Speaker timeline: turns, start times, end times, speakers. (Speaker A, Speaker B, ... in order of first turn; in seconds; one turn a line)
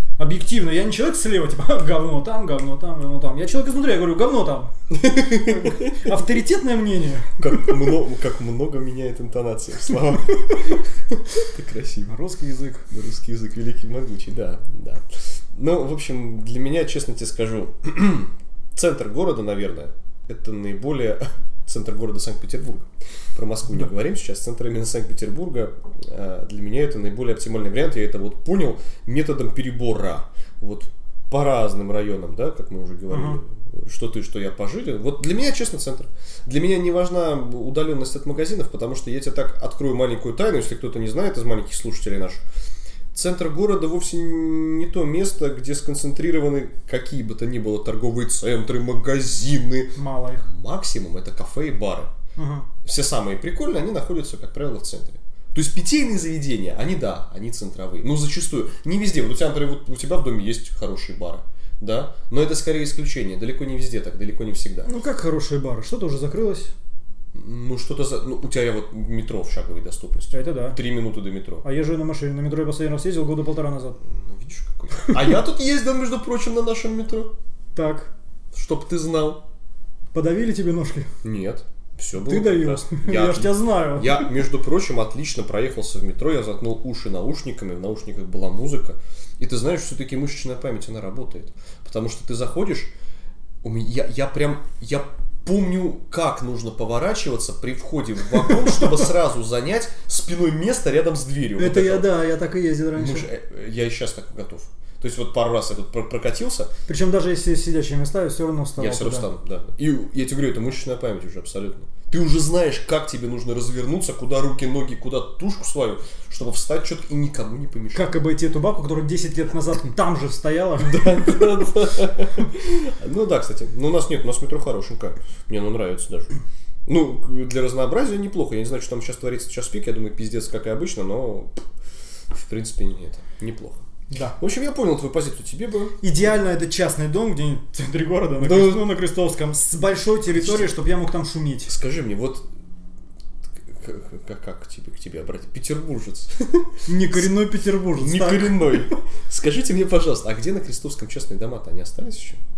Speaker A: 0.2-7.6
Speaker B: 4.9-6.0
Speaker B: 7.4-12.1
Speaker A: 12.1-12.9
Speaker B: 12.9-42.4
Speaker A: 33.1-33.4
Speaker B: 43.1-52.1
Speaker A: 50.0-50.5
Speaker A: 52.4-52.7
Speaker B: 52.8-64.9
Speaker A: 64.8-66.7
Speaker B: 67.3-71.6
Speaker A: 70.3-70.8
Speaker A: 71.6-74.0
Speaker B: 74.0-77.3
Speaker A: 77.7-78.1
Speaker B: 78.5-79.4
Speaker A: 80.1-81.1
Speaker B: 81.2-92.9
Speaker A: 82.2-84.3
Speaker B: 93.6-102.1
Speaker A: 101.6-103.3
Speaker B: 102.9-106.7
Speaker A: 106.9-109.3
Speaker B: 108.8-118.2
Speaker A: 117.9-121.6
Speaker B: 120.8-126.3
Speaker B: 126.9-131.6
Speaker B: 132.3-133.8
Speaker A: 134.1-134.4
Speaker B: 134.4-136.0
Speaker A: 136.0-141.7
Speaker B: 138.4-138.9
Speaker B: 140.3-140.7
Speaker B: 141.7-142.4
Speaker B: 143.7-146.8
Speaker A: 146.8-148.8
Speaker B: 148.0-152.4